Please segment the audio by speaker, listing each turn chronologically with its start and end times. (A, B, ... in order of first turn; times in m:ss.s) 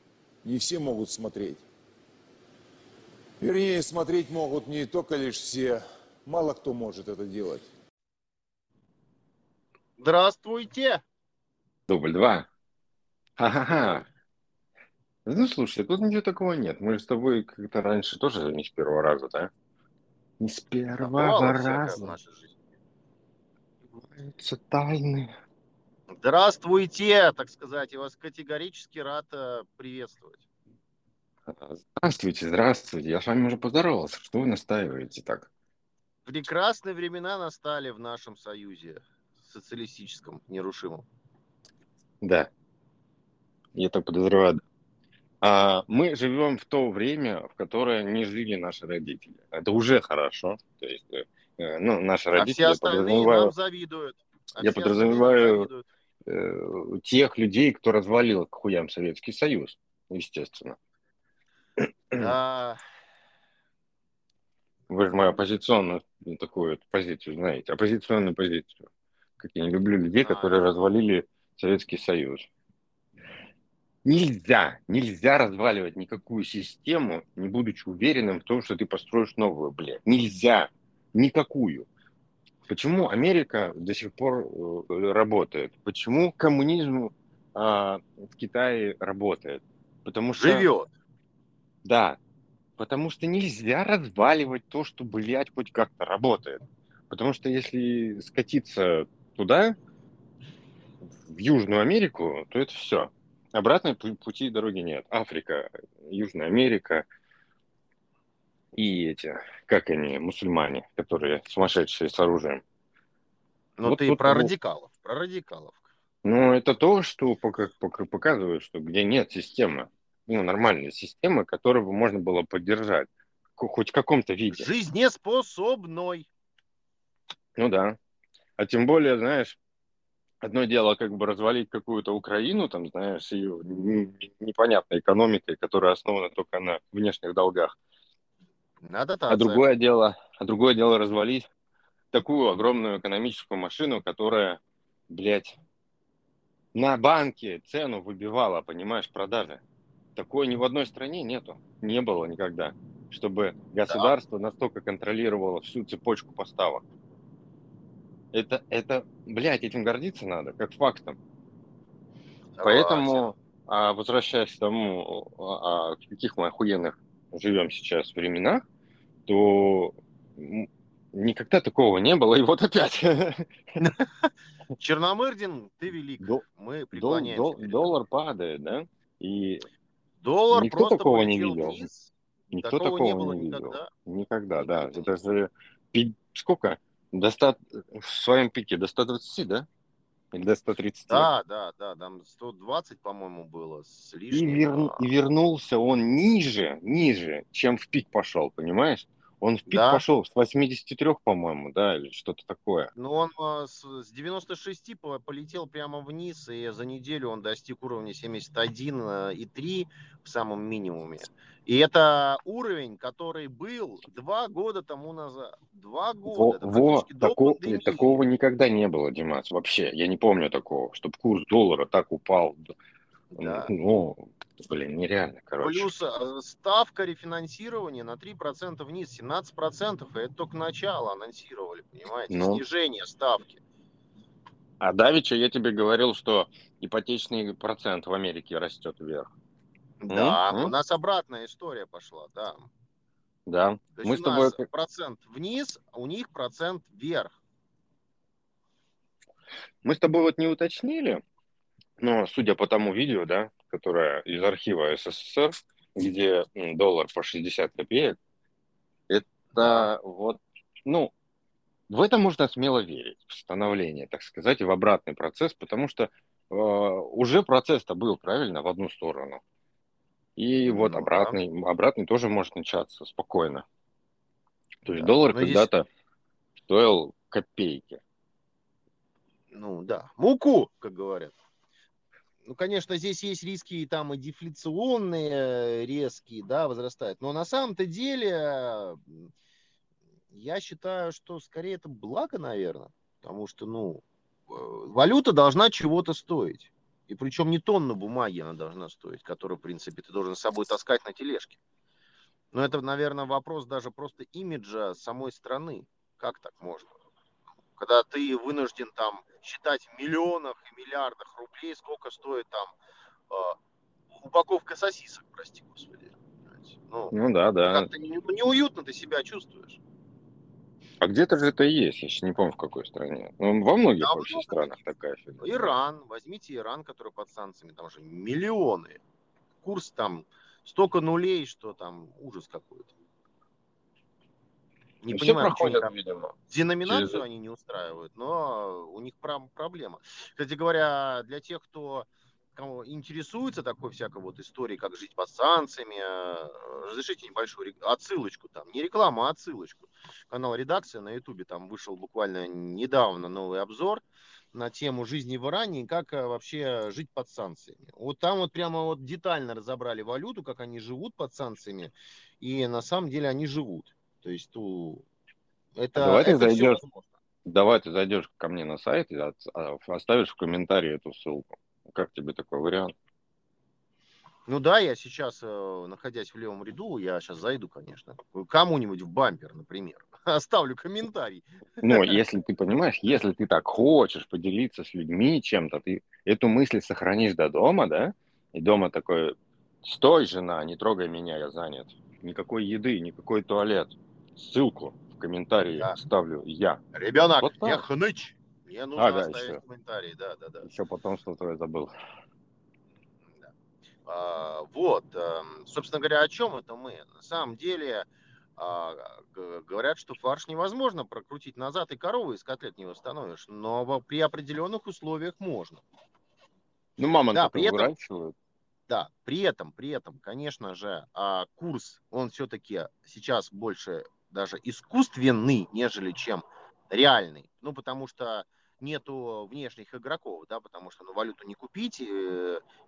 0:00.4-0:01.6 A
0:03.4-0:07.7 A
0:10.0-0:11.0 B
0:11.9-0:12.5 C
0:13.4-0:14.1 C
0:13.7-0:14.0 B
0:15.2-0:19.5 C
0:20.4-0:22.1 C
0:21.0-0:22.6 B
0:23.9-0:25.3 C
0:26.2-0:30.4 B
0:31.5-0:35.5 C
0:36.3-0:41.1 B
0:42.2-0:42.5 C
0:43.8-0:44.6 C
0:45.4-0:53.5 C
0:52.3-0:55.9 B
0:54.6-0:55.7 C
0:56.3-1:00.8 C
1:02.2-1:02.8 B
1:04.9-1:08.9 C
1:09.4-1:12.5 C
1:10.2-1:10.9 B
1:14.0-1:21.9 C
1:22.7-1:30.7 C
1:30.4-1:30.9 B
1:31.8-1:32.2 C
1:32.8-1:39.8 C
1:41.2-1:47.1 C
1:48.7-1:52.6 C
1:53.8-1:55.9 B
1:53.8-1:54.5 C
1:56.2-2:04.7 C
2:04.5-2:06.3 B
2:07.6-2:08.0 C
2:08.6-2:09.6 C
2:10.4-2:17.8 C
2:18.8-2:19.6 B
2:19.3-2:21.5 C
2:22.1-2:25.6 C
2:26.7-2:29.6 C
2:30.2-2:36.8 C
2:33.9-2:34.1 B
2:38.3-2:41.2 C
2:42.6-2:43.3 B
2:42.6-2:48.6 C
2:49.3-2:53.5 C
2:53.8-2:58.0 B
2:56.2-2:59.7 C
3:00.2-3:03.9 B
3:00.5-3:01.8 C
3:02.5-3:09.7 C
3:04.6-3:05.1 B
3:10.3-3:11.3 C
3:11.1-3:15.0 B
3:14.3-3:22.9 C
3:19.7-3:20.0 B
3:23.0-3:38.2 B
3:36.3-3:42.7 C
3:43.3-3:43.7 B
3:43.4-3:45.9 C
3:45.6-3:53.6 B
3:52.3-3:52.6 C
3:54.8-3:59.3 C
4:00.0-4:02.6 B
4:00.1-4:00.7 C
4:03.5-4:04.7 C
4:04.0-4:07.4 B
4:09.8-4:11.2 C
4:12.0-4:18.2 C
4:19.1-4:21.1 C
4:19.6-4:19.9 B
4:21.9-4:29.4 C
4:30.4-4:33.6 C
4:30.6-4:31.4 B
4:34.8-4:35.9 C
4:35.0-4:35.7 B
4:36.7-4:38.0 C
4:39.5-4:41.4 B
4:42.5-4:49.3 B
4:50.3-5:01.6 B
5:02.5-5:06.9 B
5:07.8-5:12.8 B
5:13.3-5:13.6 B
5:14.2-5:17.1 B
5:17.1-5:17.9 C
5:17.7-5:19.8 B
5:21.0-5:25.7 C
5:24.0-5:24.8 B
5:25.4-5:29.0 B
5:29.6-5:32.9 B
5:35.0-5:35.9 B
5:35.1-5:36.3 C
5:36.5-6:05.0 B
5:36.8-5:37.2 C
6:05.8-6:07.1 B
6:06.0-6:06.8 C
6:07.5-6:13.0 C
6:14.5-6:22.2 B
6:21.8-6:36.8 C
6:36.9-6:40.7 B
6:37.4-6:37.8 C
6:39.0-6:39.6 C
6:40.6-6:41.9 C
6:44.1-6:55.8 B
6:57.0-6:58.3 C
6:57.3-6:57.9 B
6:58.9-7:12.6 B